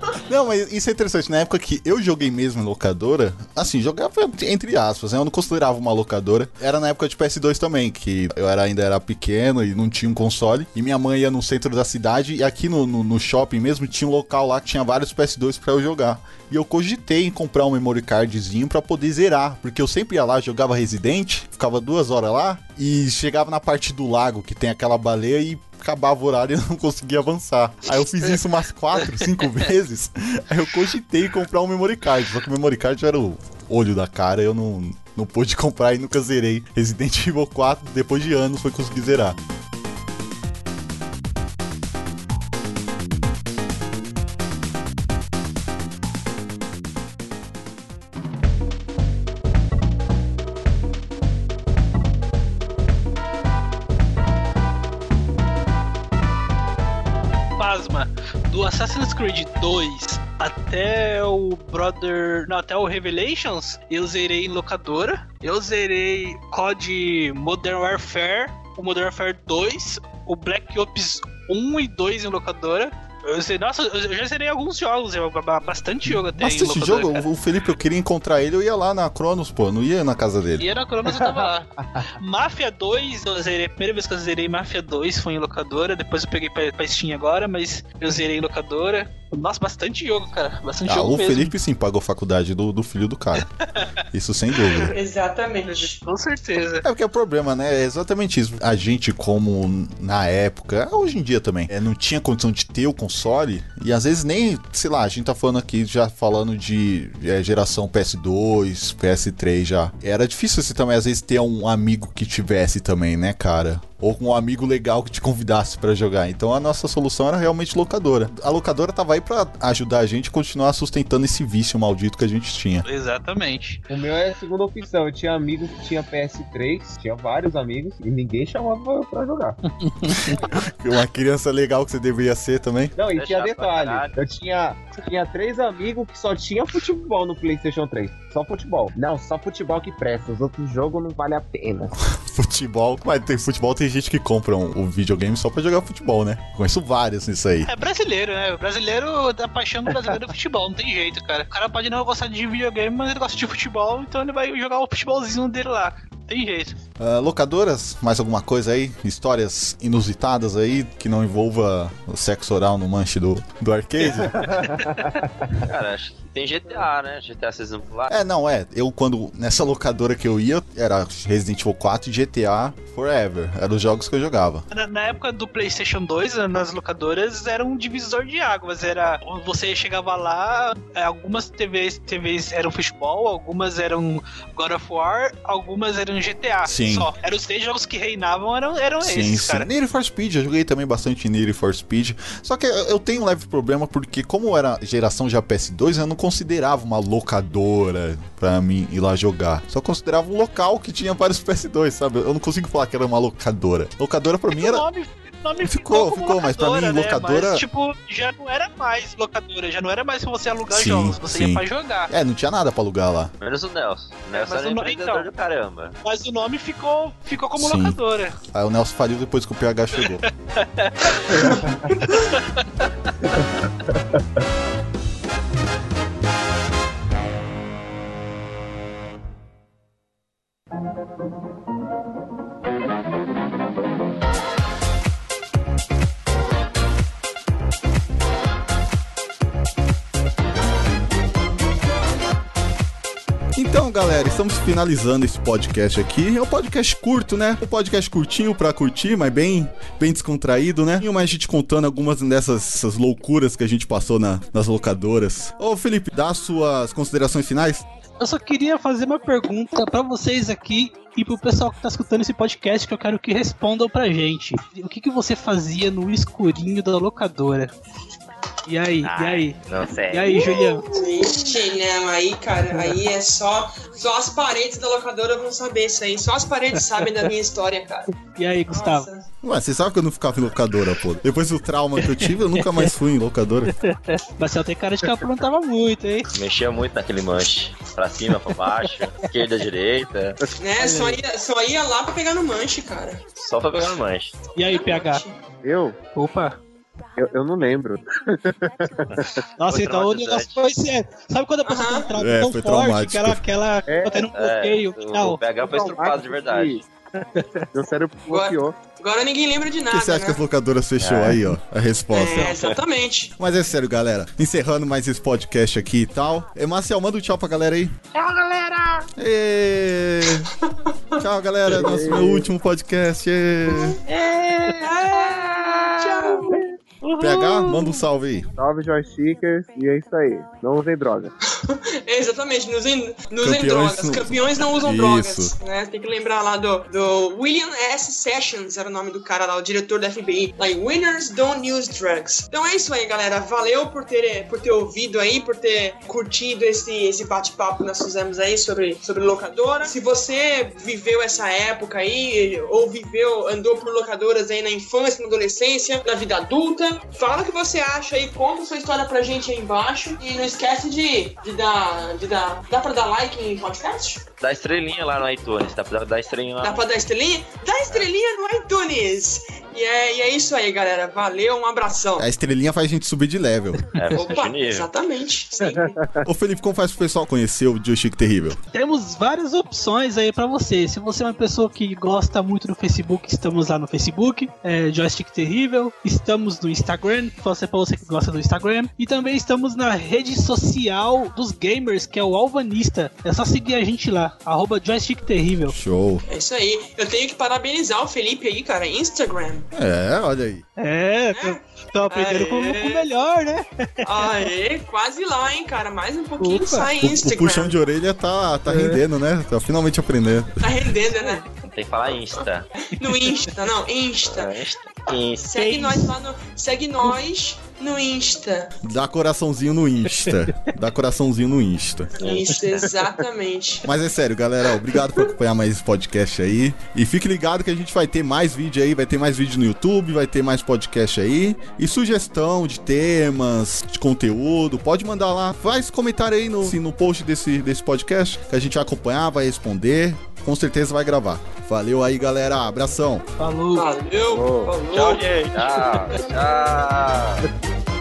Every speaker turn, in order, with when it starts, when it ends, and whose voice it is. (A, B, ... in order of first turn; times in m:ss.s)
0:00.3-0:39.4 A
0:29.1-0:29.4 B
0:57.6-1:17.3 B
1:16.0-1:20.6 A
1:20.6-1:31.5 B
1:21.1-1:22.1 C
1:30.9-1:33.5 A
1:33.4-1:33.9 B
1:34.1-1:35.0 A
1:34.6-1:34.9 B
1:34.9-1:36.0 D
1:35.6-1:36.8 B
1:36.8-2:02.8 A
2:02.8-2:03.8 B
2:03.9-2:09.6 C
2:09.8-2:10.4 B
2:10.1-2:12.9 A
2:10.1-2:10.7 C
2:13.0-2:21.9 C
2:13.1-2:14.2 E
2:22.1-2:27.7 A
2:27.6-2:36.8 B
2:37.0-2:44.6 A
2:44.3-2:45.6 C
2:44.6-2:45.2 B
2:45.6-2:48.1 E
2:48.1-2:54.6 A
2:54.7-3:09.7 B
3:06.6-3:07.1 A
3:09.0-3:24.8 A
3:24.5-3:32.1 B
3:25.6-3:27.6 A
3:30.7-3:33.3 A
3:33.4-3:36.0 E
3:34.3-3:35.3 B
3:36.0-3:38.4 B
3:37.6-3:40.2 A
3:40.0-3:43.7 B
4:03.5-4:17.8 A
4:18.2-4:27.7 B
4:28.7-4:29.6 B
4:29.0-4:30.6 E
4:30.1-4:30.9 B
4:30.8-4:38.1 D
4:38.2-4:39.1 B
4:38.7-4:39.3 D
4:39.4-4:43.7 A
4:42.0-4:42.9 B
4:43.7-4:46.3 B
4:46.3-4:50.4 E
4:50.4-4:51.2 C
4:50.6-4:53.2 D
4:53.4-4:54.4 E
4:54.5-4:55.2 B
4:54.6-4:55.4 D
4:55.6-4:56.0 C
4:56.1-4:56.6 B
4:57.2-4:59.4 C
4:59.1-5:00.6 E
4:59.6-5:05.4 B
5:01.6-5:02.1 D
5:02.2-5:03.4 A
5:03.8-5:04.3 C
5:04.3-5:06.8 E
5:05.6-5:06.8 C
5:07.5-5:08.8 C
5:08.3-5:10.4 D
5:09.9-5:12.6 A
5:11.0-5:11.4 E
5:12.1-5:13.3 D
5:13.4-5:18.0 A
5:18.1-5:19.0 D
5:19.2-5:20.5 A
5:20.4-5:21.2 D
5:21.2-5:24.0 A
5:21.7-5:22.4 C
5:23.8-5:26.6 D
5:24.1-5:24.8 B
5:25.3-5:26.2 E
5:26.5-5:26.7 C
5:27.0-5:28.0 B
5:27.2-5:28.5 A
5:28.6-5:31.3 C
5:31.5-6:04.2 D
5:33.4-5:35.5 A
6:04.4-6:06.8 E
6:06.6-6:12.3 D
6:12.2-6:13.8 A
6:13.9-6:14.9 E
6:14.1-6:16.0 D
6:15.7-6:16.1 C
6:16.2-6:18.6 A
6:18.7-6:35.8 B
6:35.7-6:36.2 A
6:36.3-6:39.7 D
6:39.7-6:40.6 A
6:40.8-6:44.5 B
6:41.3-6:43.0 D
6:44.0-6:47.7 D
6:46.4-6:46.9 B
6:47.0-6:50.9 A
6:48.7-6:49.0 B
6:50.6-6:51.4 D
6:51.6-6:52.7 E
6:52.8-6:54.7 D
6:53.1-6:53.4 B
6:54.2-6:55.4 E
6:55.4-6:58.8 D
6:55.5-6:56.1 B
6:58.8-7:02.1 A
7:00.1-7:00.6 B
7:02.2-7:02.6 E
7:02.2-7:03.9 D
7:03.8-7:23.2 A
7:23.4-7:23.9 B
7:23.7-7:26.3 D
7:24.3-7:24.7 C
7:24.9-7:27.4 E